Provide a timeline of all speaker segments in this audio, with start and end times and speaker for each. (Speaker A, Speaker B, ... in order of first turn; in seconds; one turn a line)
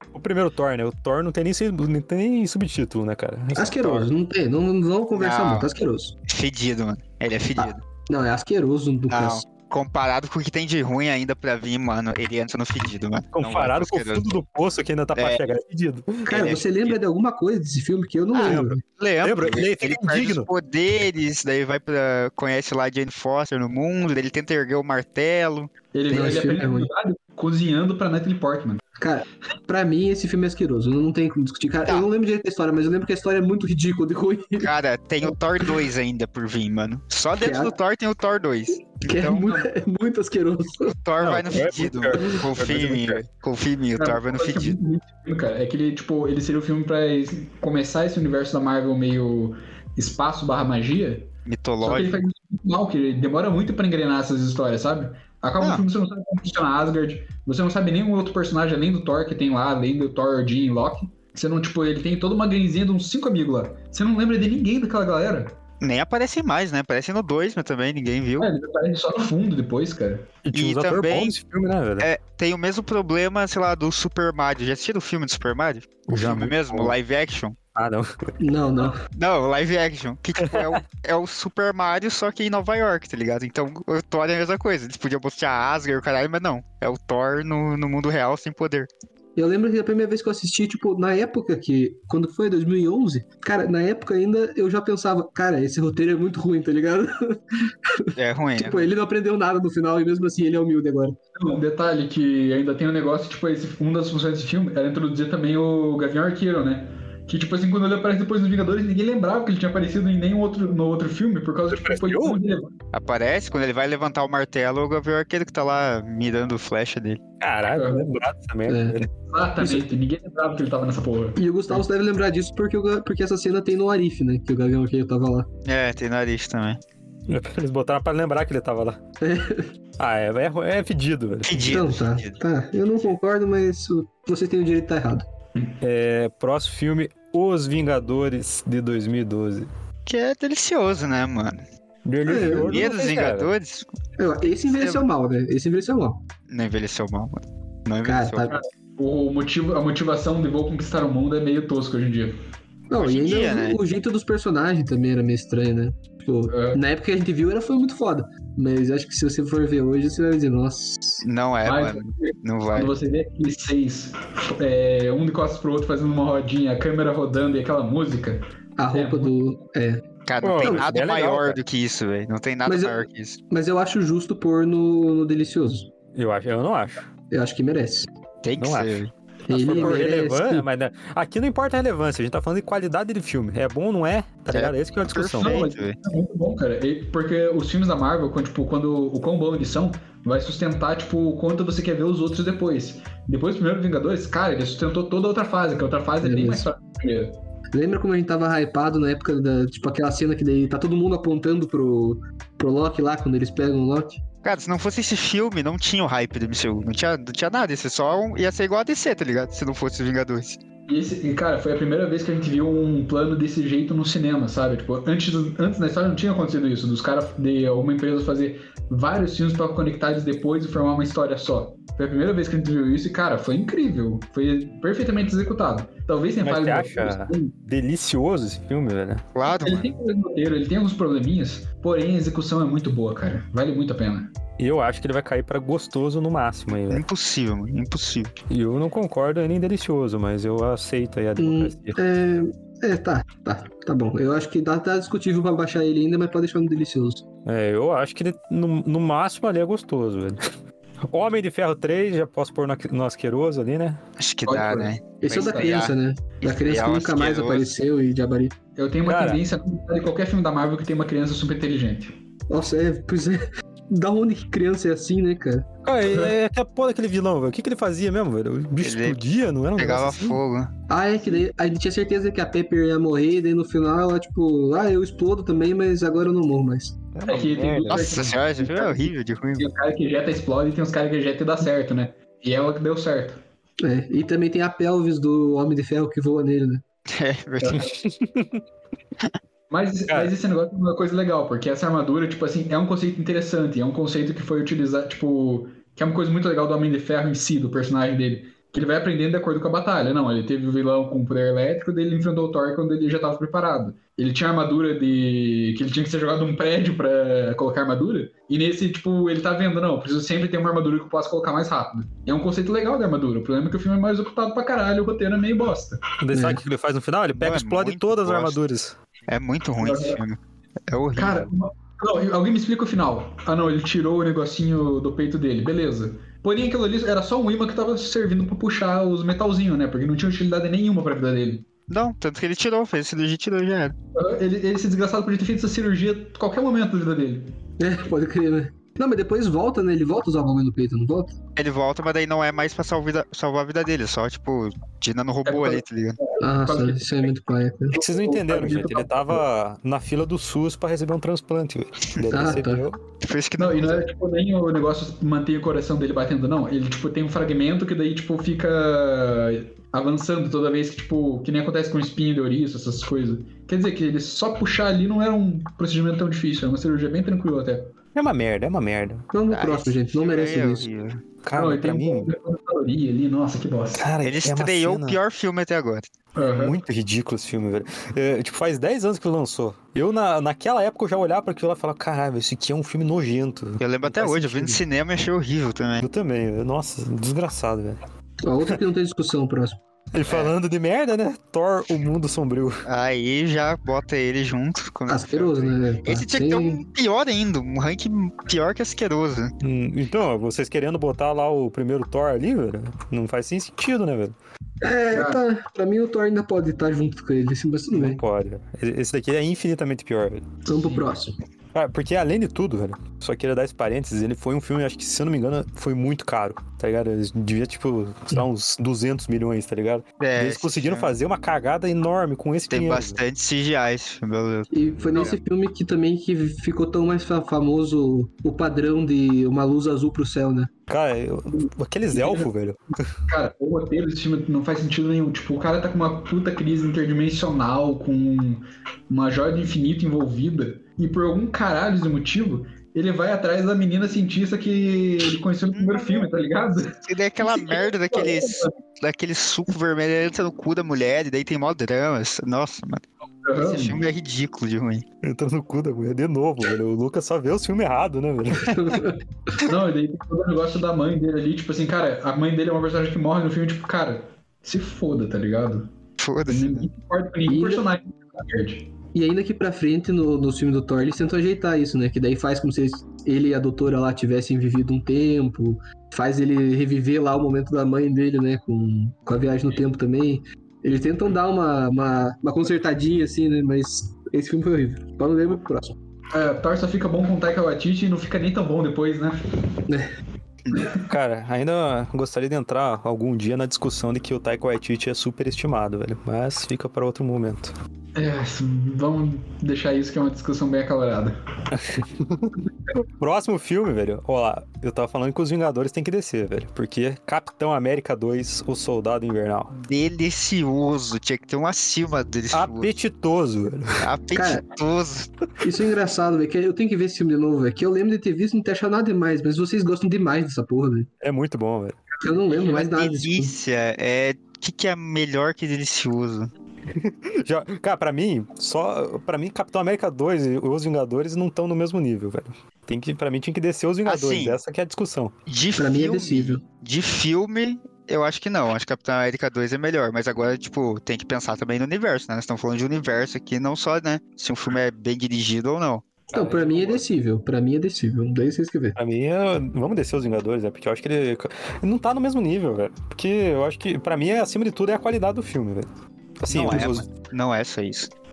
Speaker A: 0.1-4.1
Speaker B: 3.5-6.1
Speaker C: 5.1-5.7
Speaker C: 6.3-7.8
Speaker B: 7.6-9.4
Speaker C: 9.1-14.3
Speaker A: 13.3-16.3
Speaker C: 15.1-15.4
Speaker B: 16.2-18.8
Speaker C: 16.3-17.0
Speaker C: 18.3-25.7
Speaker A: 18.4-20.5
Speaker D: 25.9-28.8
Speaker B: 26.1-26.9
Speaker B: 29.0-34.7
Speaker C: 34.6-39.6
Speaker B: 37.4-37.7
Speaker B: 39.0-40.9
Speaker C: 41.0-44.8
Speaker A: 41.2-43.2
Speaker D: 44.0-51.3
Speaker C: 51.5-52.2
Speaker D: 51.8-65.5
Speaker C: 55.6-55.9
Speaker C: 65.8-68.5
Speaker D: 68.4-70.3
Speaker A: 70.4-72.1
Speaker C: 70.5-71.4
Speaker C: 72.0-77.6
Speaker A: 76.1-76.9
Speaker A: 77.7-78.1
Speaker B: 78.4-79.0
Speaker C: 79.1-88.9
Speaker A: 80.4-80.8
Speaker B: 89.3-101.2
Speaker C: 98.2-98.9
Speaker D: 101.4-112.7
Speaker A: 111.7-112.4
Speaker C: 112.9-117.2
Speaker A: 117.4-119.1
Speaker D: 117.7-118.0
Speaker B: 118.7-119.0
Speaker D: 119.3-121.4
Speaker B: 121.4-125.5
Speaker C: 125.6-126.8
Speaker A: 127.3-129.0
Speaker B: 129.2-129.7
Speaker A: 130.0-131.7
Speaker C: 131.4-132.4
Speaker B: 131.6-135.2
Speaker A: 135.8-139.7
Speaker C: 140.1-141.6
Speaker A: 142.0-143.5
Speaker B: 142.2-142.7
Speaker C: 142.5-143.9
Speaker B: 144.2-146.2
Speaker C: 144.4-145.1
Speaker C: 146.5-148.5
Speaker B: 148.0-148.5
Speaker D: 148.5-152.4
Speaker B: 152.9-161.2
Speaker C: 153.0-153.8
Speaker D: 156.5-156.8
Speaker C: 161.2-162.9
Speaker D: 161.6-169.3
Speaker B: 168.8-170.0
Speaker C: 170.2-173.4
Speaker A: 170.4-171.6
Speaker B: 172.7-175.9
Speaker A: 176.1-177.1
Speaker B: 177.3-178.1
Speaker C: 178.4-179.1
Speaker A: 178.6-185.6
Speaker B: 179.5-180.6
Speaker C: 184.5-186.0
Speaker D: 185.4-197.4
Speaker B: 196.2-196.7
Speaker B: 197.7-204.2
Speaker C: 204.4-210.6
Speaker D: 210.9-227.5
Speaker A: 226.4-229.2
Speaker C: 229.3-229.9
Speaker D: 229.5-234.3
Speaker A: 234.6-237.0
Speaker C: 236.9-238.3
Speaker A: 238.5-242.0
Speaker B: 241.4-247.2
Speaker A: 247.4-250.4
Speaker A: 251.1-254.0
Speaker C: 254.2-257.8
Speaker D: 254.5-255.8
Speaker B: 255.2-258.5
Speaker D: 258.8-262.1
Speaker A: 259.1-259.4
Speaker B: 262.5-265.7
Speaker A: 265.8-270.4
Speaker D: 266.1-266.3
Speaker C: 268.8-269.2
Speaker C: 269.7-270.7
Speaker B: 270.9-277.0
Speaker A: 277.1-278.2
Speaker D: 277.3-283.4
Speaker C: 277.9-279.7
Speaker B: 283.8-286.8
Speaker C: 287.1-287.9
Speaker D: 287.6-287.9
Speaker A: 287.7-288.6
Speaker D: 289.7-316.0
Speaker A: 316.2-319.0
Speaker B: 316.3-316.6
Speaker C: 317.3-318.6
Speaker C: 319.3-321.5
Speaker D: 319.8-320.2
Speaker D: 321.1-331.6
Speaker C: 331.9-333.9
Speaker D: 334.1-337.5
Speaker B: 337.8-341.4
Speaker C: 341.6-346.2
Speaker D: 345.4-347.3
Speaker B: 346.4-348.0
Speaker D: 347.9-349.4
Speaker A: 347.9-353.0
Speaker B: 352.3-352.8
Speaker C: 353.2-354.1
Speaker D: 353.6-367.9
Speaker A: 368.1-369.2
Speaker B: 369.3-370.9
Speaker C: 369.5-371.2
Speaker A: 371.4-372.3
Speaker D: 371.6-374.0
Speaker A: 373.9-375.2
Speaker C: 374.2-376.1
Speaker D: 376.3-376.8
Speaker A: 376.4-384.8
Speaker C: 383.8-386.1
Speaker A: 386.0-388.0
Speaker B: 388.4-389.8
Speaker A: 390.1-392.8
Speaker C: 390.3-390.5
Speaker C: 392.9-399.5
Speaker B: 395.1-396.8
Speaker A: 399.6-404.3
Speaker B: 404.8-408.2
Speaker D: 405.1-405.4
Speaker A: 407.9-410.4
Speaker B: 410.6-411.3
Speaker D: 410.7-411.1
Speaker A: 411.7-423.2
Speaker C: 420.2-421.1
Speaker C: 422.7-425.4
Speaker B: 424.7-430.7
Speaker A: 430.9-433.1
Speaker D: 432.1-432.5
Speaker D: 433.3-448.7
Speaker C: 445.7-446.3
Speaker C: 447.0-455.0
Speaker D: 453.4-454.0
Speaker A: 455.2-459.1
Speaker B: 458.7-459.2
Speaker D: 459.6-465.9
Speaker C: 466.2-466.9
Speaker D: 466.5-468.9
Speaker B: 467.5-467.8
Speaker B: 469.1-486.0
Speaker D: 486.3-489.4
Speaker D: 490.7-491.0
Speaker A: 491.1-497.7
Speaker D: 498.1-501.4
Speaker A: 501.7-509.7
Speaker C: 509.7-512.9
Speaker A: 512.5-514.0
Speaker C: 514.0-515.3
Speaker B: 514.3-514.6
Speaker B: 515.6-521.1
Speaker A: 521.2-522.0
Speaker B: 522.2-523.5
Speaker C: 522.5-526.5
Speaker A: 526.9-535.3
Speaker C: 534.0-534.6
Speaker C: 535.5-546.1
Speaker B: 535.8-536.6
Speaker B: 546.3-549.0
Speaker A: 546.4-546.9
Speaker A: 549.0-555.9
Speaker A: 556.4-557.1
Speaker C: 556.5-558.1